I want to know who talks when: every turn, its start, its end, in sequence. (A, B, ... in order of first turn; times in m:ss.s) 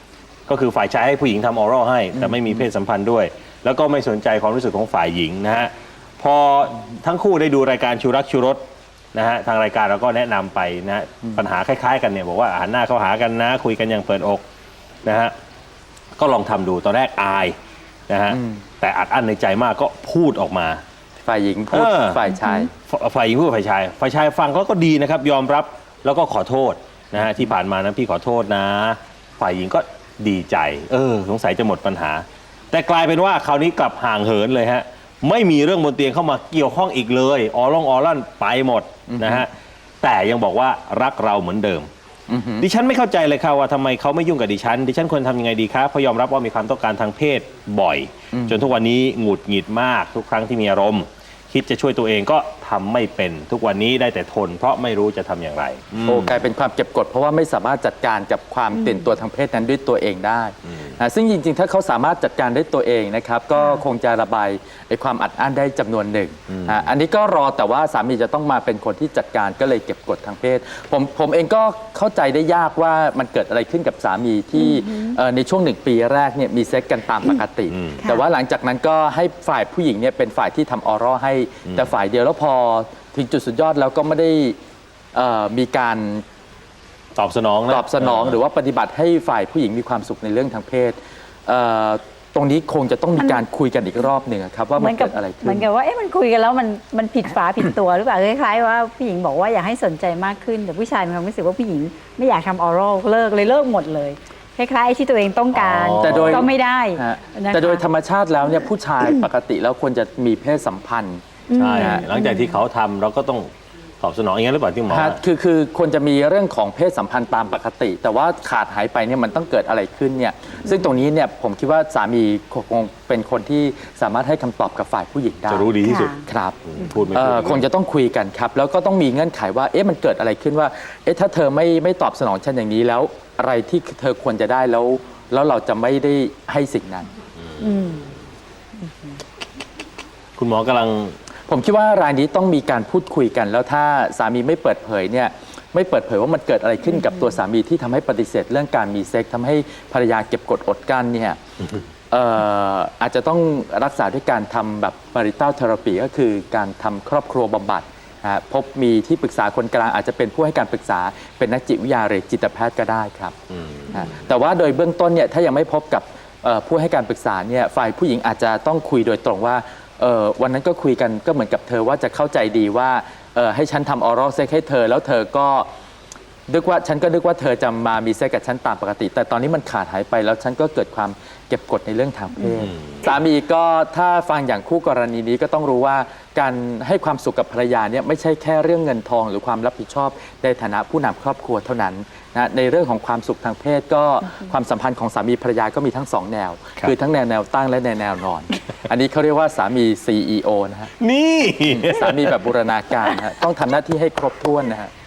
0:00.5-0:08.6 A
0:02.2-0:02.5 B
0:09.1-0:14.4 A
0:15.0-0:15.3 A
0:16.2-0:17.6 A
0:18.1-0:20.8 A
0:18.3-0:18.6 B
0:21.2-0:22.7 B
0:21.7-0:22.2 A
0:22.3-0:22.7 C
0:22.8-0:41.9 A
0:39.1-0:39.4 B
0:42.3-0:42.7 B
0:42.6-0:56.4 A
0:48.3-0:48.6 B
0:56.0-1:24.6 B
1:06.5-1:06.8 A
1:14.6-1:15.2 C
1:17.7-1:18.0 A
1:25.1-1:26.2 B
1:27.2-1:28.4 A
1:27.7-1:35.6 B
1:34.8-1:47.8 C
1:45.5-1:46.5 A
1:46.0-1:51.2 B
1:51.5-1:52.5 C
1:51.6-1:53.5 A
1:51.8-1:52.0 B
1:54.0-1:55.2 A
1:54.9-2:06.6 B
2:05.5-2:07.6 A
2:05.8-2:06.2 C
2:07.1-2:17.1 B
2:17.5-2:17.8 A
2:17.6-2:18.1 C
2:20.4-2:21.2 A
2:21.5-2:31.4 B
2:32.1-2:43.3 B
2:43.5-2:44.2 A
2:43.9-2:55.7 B
2:56.5-3:20.9 B
3:21.0-3:22.4 A
3:21.7-3:24.9 B